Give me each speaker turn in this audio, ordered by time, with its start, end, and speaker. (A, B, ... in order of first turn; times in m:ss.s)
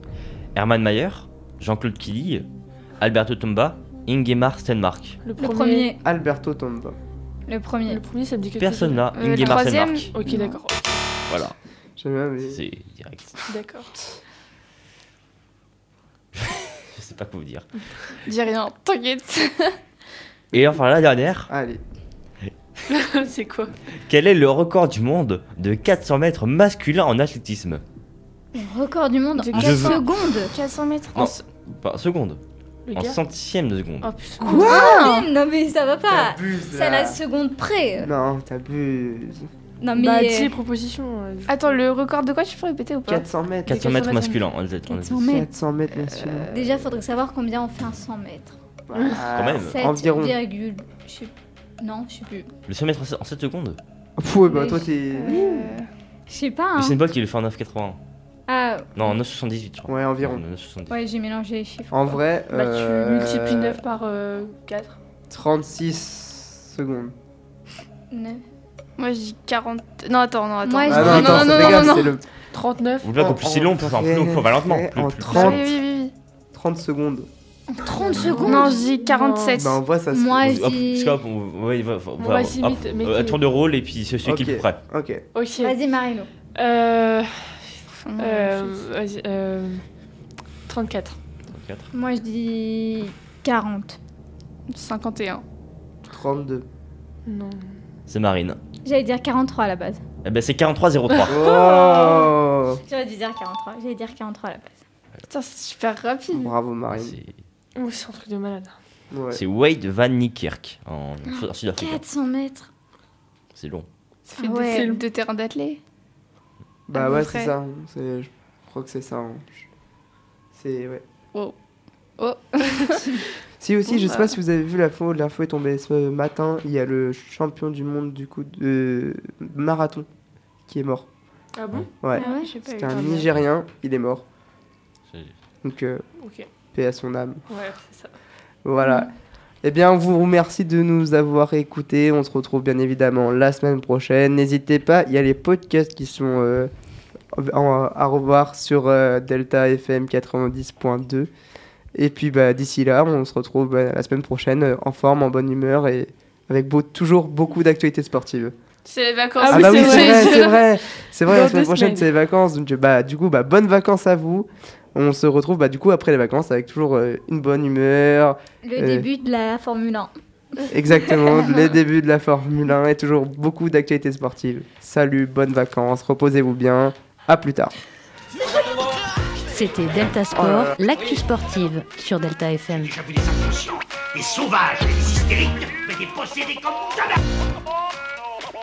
0:00.5-0:02.5 A
0:03.0-0:05.2 A
0:05.2-0:05.9 B
0:05.4-0:06.0 C
0:06.0-0:07.0 D
0:07.5-0:08.0 C
0:07.9-0:11.0 B
0:08.6-0:10.1 A
0:09.1-0:10.5 E
0:11.3-0:11.6 A
0:12.0-0:12.6 D
0:12.4-0:13.5 A
0:13.5-0:13.9 B
0:16.3-0:17.7 A
0:18.2-0:19.8 E
0:20.5-0:21.5 A
0:21.5-0:21.8 D
0:22.9-0:23.7 B
0:24.0-0:27.8 A
0:28.5-0:30.5 C
0:29.4-0:30.0 E
0:29.5-0:30.0 A
0:30.5-0:31.4 E
0:31.1-0:32.4 A
0:32.9-0:33.2 B
0:32.9-0:34.1 A
0:34.0-0:34.7 B
0:34.4-0:35.2 D
0:34.5-0:38.1 C
0:36.1-0:37.2 D
0:38.0-0:39.5 D
0:39.8-0:40.5 C
0:39.9-0:41.8 B
0:41.5-0:43.3 E
0:43.1-0:43.8 D
0:43.6-0:45.5 A
0:43.7-0:44.4 B
0:44.9-0:45.5 C
0:45.3-0:46.5 D
0:46.0-0:46.7 E
0:46.5-0:48.6 C
0:48.9-0:50.4 D
0:49.3-0:49.8 A
0:49.6-0:52.5 C
0:52.7-0:53.8 A
0:54.2-0:55.7 D
0:54.5-0:55.3 C
0:55.1-0:55.9 E
0:56.3-0:57.0 C
0:56.8-0:58.0 A
0:58.5-0:59.1 C
0:59.0-1:01.0 A
0:59.9-1:00.4 D
1:00.9-1:02.2 C
1:01.9-1:03.8 D
1:02.5-1:05.0 B
1:05.3-1:07.1 D
1:08.1-1:08.4 C
1:09.0-1:12.1 E
1:10.6-1:11.5 C
1:10.9-1:12.2 D
1:11.0-1:12.0 A
1:12.5-1:13.1 B
1:13.0-1:15.6 A
1:13.2-1:15.6 D
1:15.2-1:16.1 E
1:16.5-1:17.3 D
1:17.7-1:18.8 C
1:18.1-1:19.8 E
1:18.2-1:19.6 B
1:19.5-1:20.7 D
1:20.1-1:21.2 C
1:20.4-1:24.8 A
1:22.2-1:23.4 B
1:24.2-1:25.2 D
1:25.3-1:25.8 B
1:25.6-1:26.3 C
1:26.5-1:29.8 B
1:28.0-1:28.7 E
1:30.6-1:31.2 B
1:31.5-1:31.9 A
1:31.9-1:34.0 C
1:34.7-1:35.4 E
1:36.1-1:36.6 D
1:37.2-1:37.8 B
1:38.1-1:38.6 A
1:38.8-1:40.0 C
1:40.2-1:41.4 A
1:41.2-1:42.8 D
1:41.5-1:42.3 C
1:42.8-1:44.8 C
1:45.3-1:46.5 E
1:46.3-1:47.2 D
1:46.9-1:47.3 A
1:47.8-1:48.8 B
1:49.1-1:49.4 D
1:49.3-1:52.0 A
1:51.3-1:52.7 C
1:53.5-1:53.9 A
1:54.3-1:55.8 E
1:54.4-1:55.0 C
1:54.7-1:55.0 B
1:56.9-1:59.7 D
1:56.9-1:57.6 E
2:00.5-2:01.0 D
2:02.2-2:03.2 E
2:03.6-2:10.1 D
2:04.0-2:04.2 E
2:10.7-2:11.1 D
2:11.6-2:12.0 B
2:12.0-2:14.2 D
2:12.1-2:13.3 E
2:12.1-2:12.5 C
2:12.9-2:13.2 B
2:15.6-2:16.0 D
2:16.2-2:16.5 B
2:16.7-2:17.4 D
2:17.5-2:18.1 B
2:18.6-2:19.1 D
2:18.8-2:19.1 C
2:19.6-2:26.7 D
2:27.3-2:31.3 D
2:31.9-2:38.5 D
2:38.8-2:40.5 E
2:39.4-2:40.6 B
2:39.5-2:49.1 D
2:41.3-2:42.1 B
2:48.6-2:50.1 C
2:50.7-2:57.7 D
2:51.1-2:51.5 C
2:58.5-2:59.0 F
2:59.5-3:02.9 G
3:00.4-3:00.7 D
3:02.8-3:07.2 F